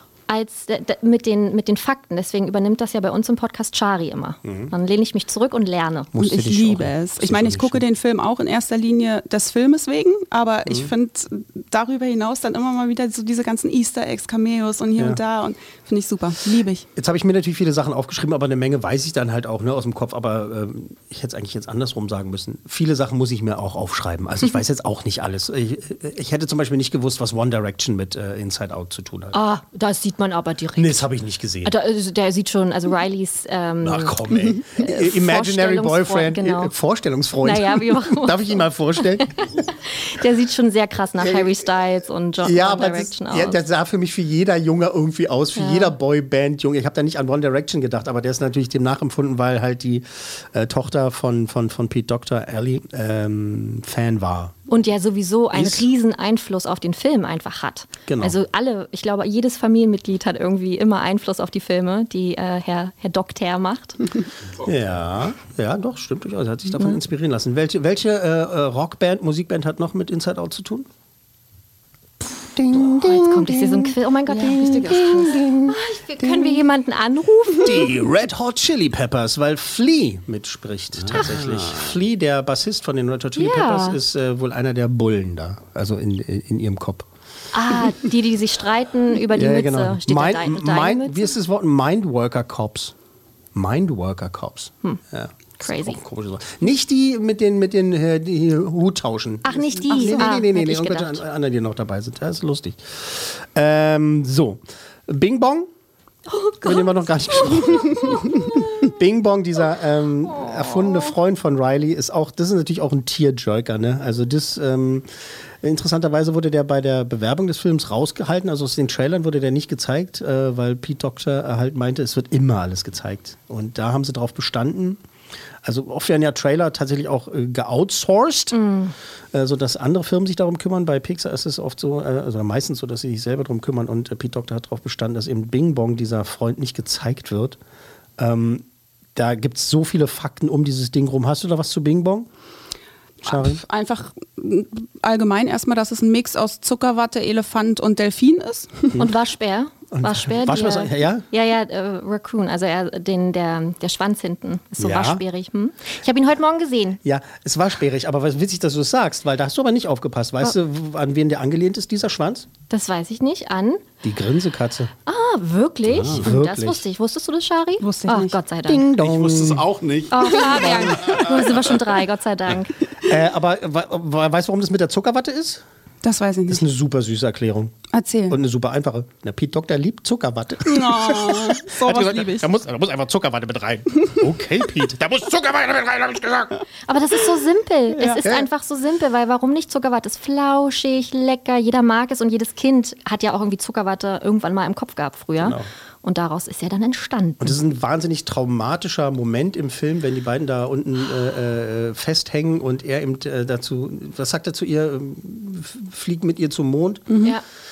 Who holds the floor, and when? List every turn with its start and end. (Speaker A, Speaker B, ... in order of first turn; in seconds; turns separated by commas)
Speaker A: 0.3-6.1, Speaker B: 4.4-4.7, Speaker B: 6.1-7.8, Speaker C: 6.2-16.9, Speaker B: 17.0-29.4, Speaker A: 29.3-31.1, Speaker B: 30.8-31.7, Speaker A: 31.6-34.2, Speaker B: 33.8-39.5, Speaker A: 34.8-36.7, Speaker A: 37.4-38.6, Speaker A: 39.7-43.6, Speaker B: 41.2-41.6, Speaker B: 42.4-54.6, Speaker A: 45.6-46.0, Speaker A: 54.7-64.0, Speaker B: 55.5-55.9, Speaker B: 58.1-58.4, Speaker B: 64.6-70.9, Speaker B: 72.4-76.6, Speaker A: 72.7-77.9, Speaker C: 74.3-75.4, Speaker B: 77.6-87.1, Speaker D: 81.0-82.0, Speaker A: 83.4-84.0, Speaker A: 87.5-91.3, Speaker B: 89.3-93.0, Speaker B: 93.5-105.7, Speaker A: 95.6-96.0, Speaker A: 99.4-101.2, Speaker A: 106.3-108.4, Speaker B: 106.6-115.1, Speaker B: 115.6-125.0, Speaker B: 125.6-128.6, Speaker A: 128.5-128.9, Speaker B: 129.3-137.6, Speaker B: 138.2-142.3, Speaker C: 143.2-148.9, Speaker B: 143.2-143.6, Speaker A: 149.0-157.0, Speaker B: 149.9-151.2, Speaker B: 154.8-155.2, Speaker B: 157.0-162.5, Speaker A: 162.7-163.8, Speaker B: 164.0-164.9, Speaker A: 165.1-168.8, Speaker D: 165.9-166.2, Speaker B: 166.1-166.8, Speaker C: 167.8-168.4, Speaker B: 168.7-169.7, Speaker D: 169.0-171.7, Speaker A: 170.1-172.7, Speaker B: 170.4-171.0, Speaker B: 173.1-175.6, Speaker C: 176.0-176.7, Speaker B: 176.5-177.8, Speaker C: 177.9-178.4, Speaker B: 178.3-186.6, Speaker C: 180.7-182.5, Speaker A: 186.9-197.6, Speaker C: 188.0-188.2, Speaker B: 195.4-195.7, Speaker B: 197.4-207.3, Speaker C: 207.1-207.3